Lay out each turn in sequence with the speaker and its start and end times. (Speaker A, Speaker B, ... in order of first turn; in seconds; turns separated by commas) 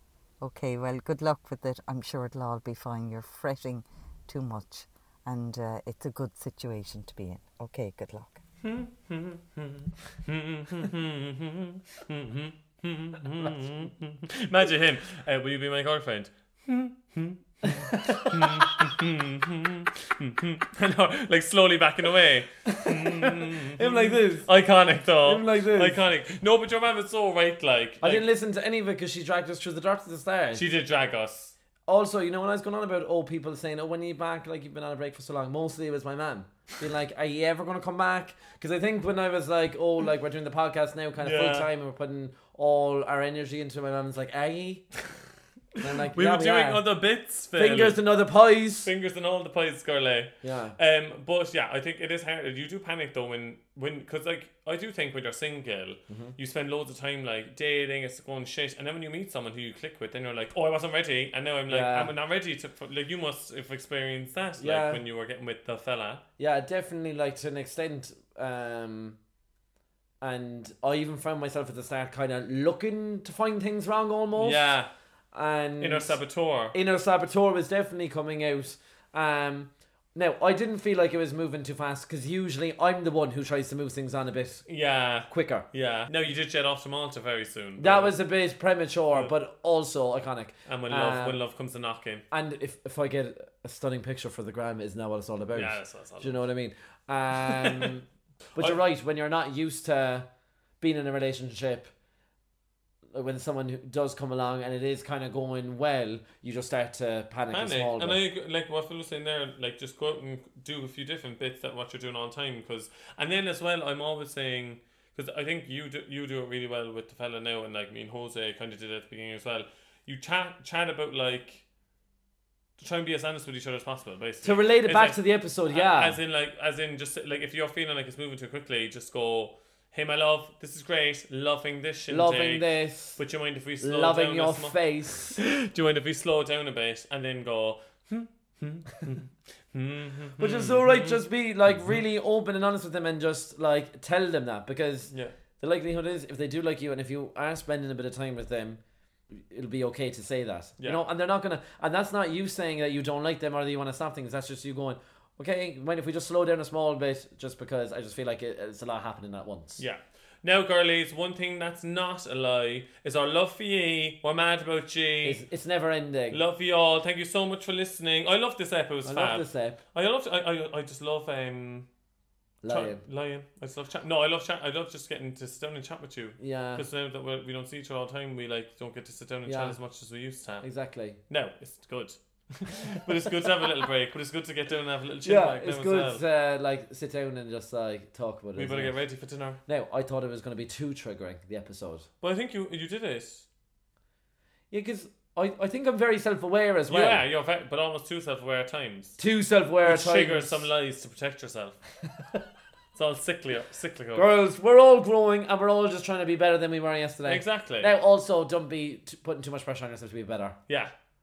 Speaker A: 0.4-8.4, Speaker B: 8.6-28.2, Speaker C: 17.6-18.6, Speaker C: 22.6-24.5, Speaker C: 25.2-26.0, Speaker C: 28.0-30.6, Speaker B: 30.5-31.5, Speaker C: 31.9-44.9, Speaker B: 41.2-41.7, Speaker C: 45.8-46.8, Speaker B: 46.1-48.0, Speaker C: 47.5-48.9, Speaker B: 48.8-66.2, Speaker C: 50.4-50.8, Speaker C: 56.1-56.4, Speaker C: 61.7-62.1, Speaker C: 64.6-65.0, Speaker C: 66.4-69.2, Speaker C: 70.2-74.7, Speaker B: 74.3-74.9, Speaker C: 75.3-76.2, Speaker B: 75.8-76.7, Speaker C: 76.7-84.7, Speaker B: 84.7-88.2, Speaker C: 85.3-85.7, Speaker C: 87.8-91.4, Speaker B: 90.7-92.2, Speaker C: 92.3-98.0, Speaker B: 95.5-96.5, Speaker B: 97.5-97.9, Speaker B: 98.5-98.8, Speaker C: 98.5-100.2, Speaker C: 100.8-101.9, Speaker C: 103.1-108.2, Speaker B: 107.5-121.6, Speaker B: 122.8-141.9, Speaker C: 124.4-126.2, Speaker C: 132.1-133.2, Speaker C: 133.8-135.4, Speaker C: 140.4-148.8, Speaker B: 145.1-145.3, Speaker C: 149.3-159.8, Speaker B: 159.8-165.4, Speaker C: 165.2-166.4, Speaker B: 166.3-171.9, Speaker C: 169.0-169.8, Speaker C: 172.6-173.0, Speaker B: 172.7-180.7, Speaker C: 176.4-176.8, Speaker C: 179.4-179.8, Speaker C: 180.6-181.2, Speaker B: 181.3-186.2, Speaker C: 185.2-189.0, Speaker B: 188.6-189.6, Speaker C: 189.7-192.1, Speaker B: 192.2-193.4, Speaker C: 194.7-197.2, Speaker B: 196.9-199.2, Speaker C: 199.2-200.7, Speaker B: 199.8-201.8, Speaker B: 202.9-204.3, Speaker C: 204.1-210.6, Speaker B: 207.2-207.9